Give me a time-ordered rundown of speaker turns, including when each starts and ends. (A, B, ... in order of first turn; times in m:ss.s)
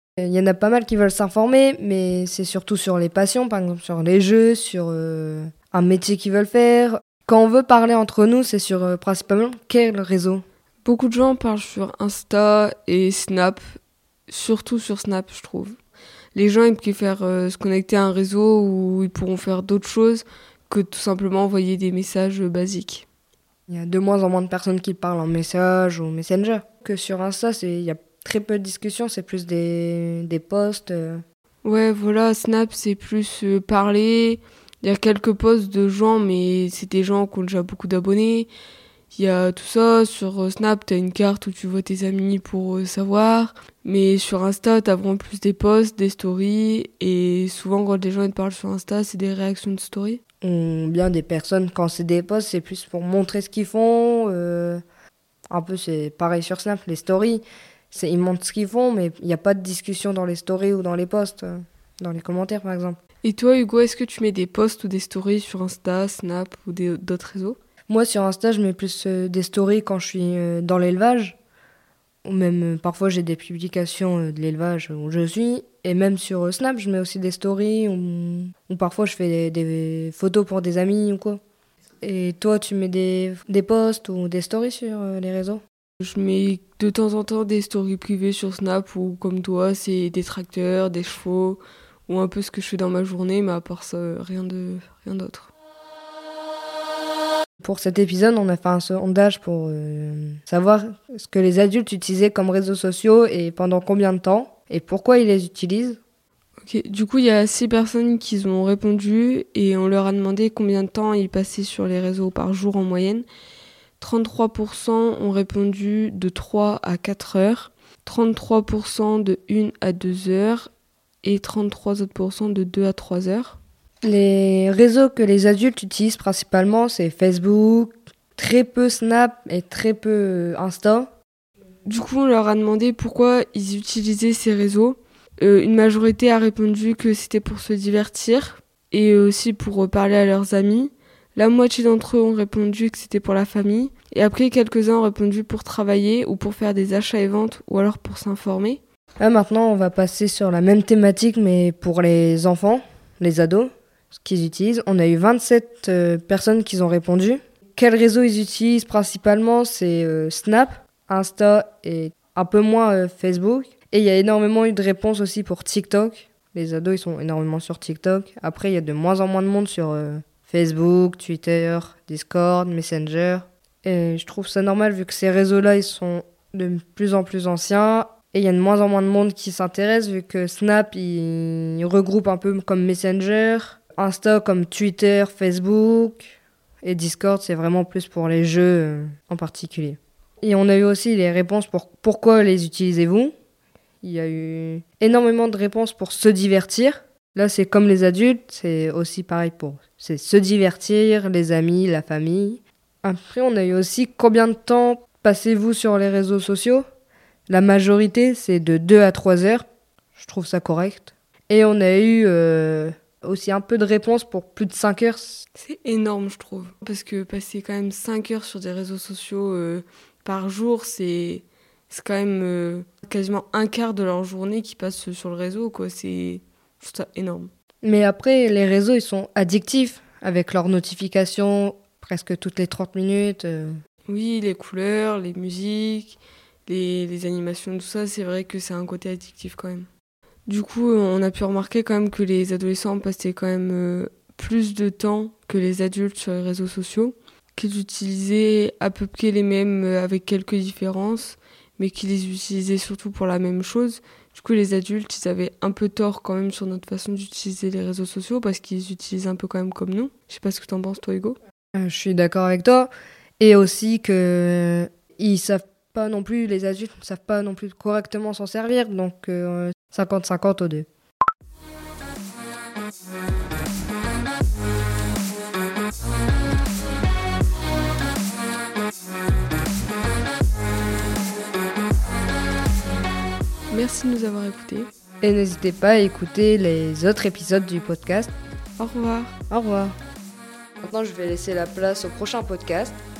0:00.2-0:10.4 A
0:10.8-0:13.6 B
0:14.3-0:15.8 B
0:16.3-0:23.1 B
0:23.7-0:31.2 A
0:31.6-0:38.5 B
0:39.1-0:50.2 B
0:50.4-0:54.8 A
0:55.5-1:03.0 A
1:03.2-1:07.6 B
1:07.9-1:11.4 A
1:12.2-1:21.4 A
1:22.0-1:25.6 A
1:26.0-1:35.5 B
1:37.6-1:46.0 A
1:46.6-1:53.2 B
1:54.0-2:00.7 B
2:01.2-2:03.6 B
2:04.0-2:11.1 A
2:11.9-2:28.8 B
2:29.2-3:13.3 A
3:14.0-3:26.8 A
3:27.5-3:29.6 A
3:30.2-3:35.4 A
3:35.6-3:47.5 B
3:47.8-3:53.8 A
3:54.1-3:59.9 B
4:00.4-4:21.4 B
4:21.8-4:30.9 A
4:43.7-4:44.9 B
4:45.2-4:48.3 A
4:48.8-4:49.3 B
4:49.5-4:49.9 A
4:50.8-4:53.0 A